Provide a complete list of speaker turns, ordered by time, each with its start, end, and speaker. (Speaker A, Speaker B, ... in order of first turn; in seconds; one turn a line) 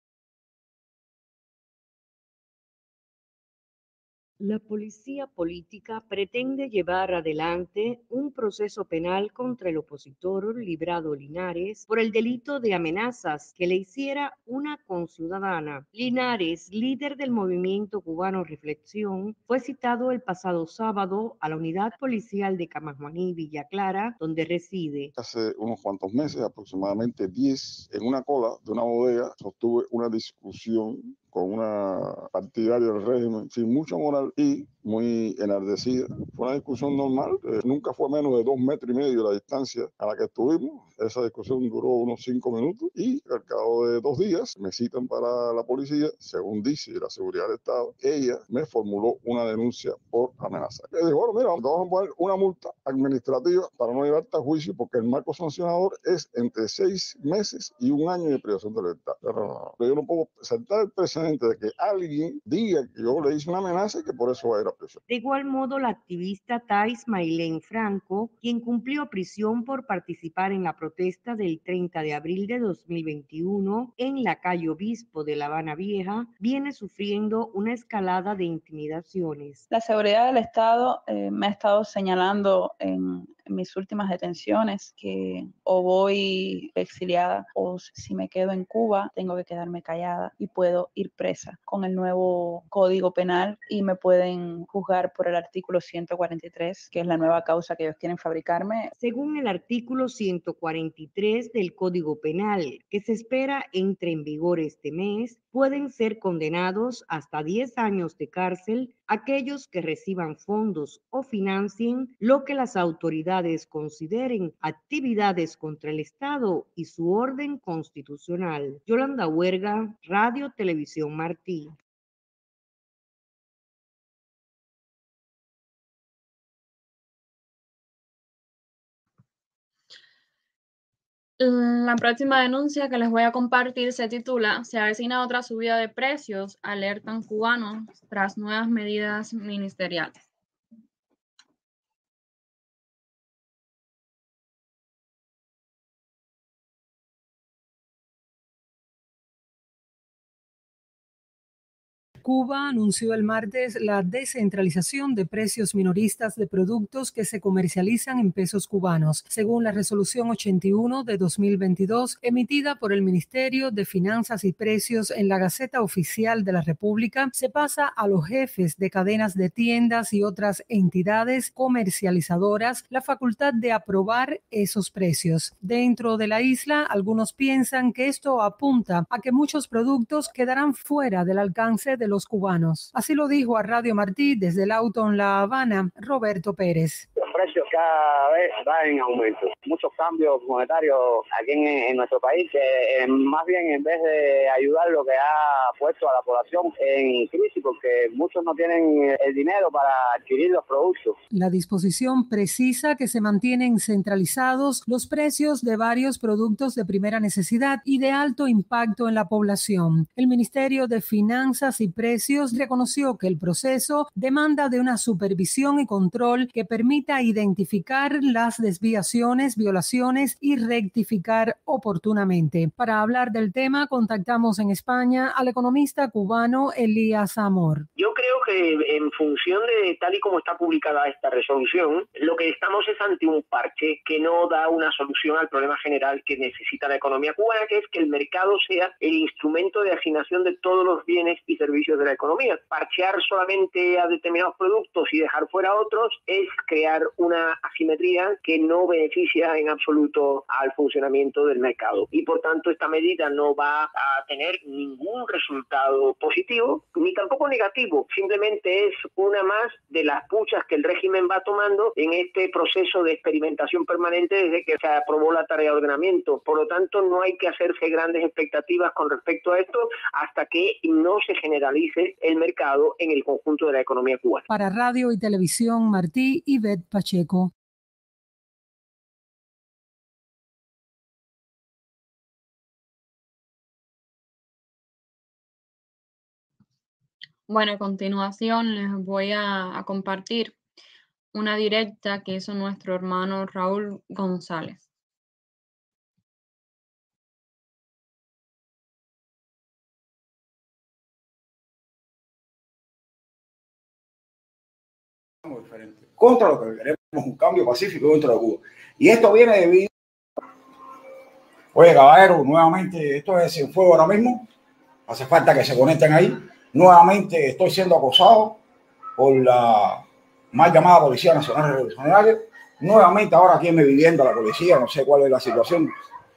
Speaker A: 4.4-25.1
Speaker B: 25.1-65.0
Speaker A: 65.1-79.7
Speaker C: 79.7-98.9
Speaker A: 99.0-121.8
Speaker D: 131.4-140.2
Speaker E: 152.2-187.1
Speaker F: 187.3-201.2
Speaker E: 201.3-227.9
Speaker G: 227.9-274.4
Speaker E: 274.5-277.5
Speaker D: 287.5-290.6
Speaker D: 291.3-294.9
Speaker H: 305.4-309.9
Speaker H: 311.7-314.5
Speaker H: 315.1-318.6
Speaker H: 319.2-325.9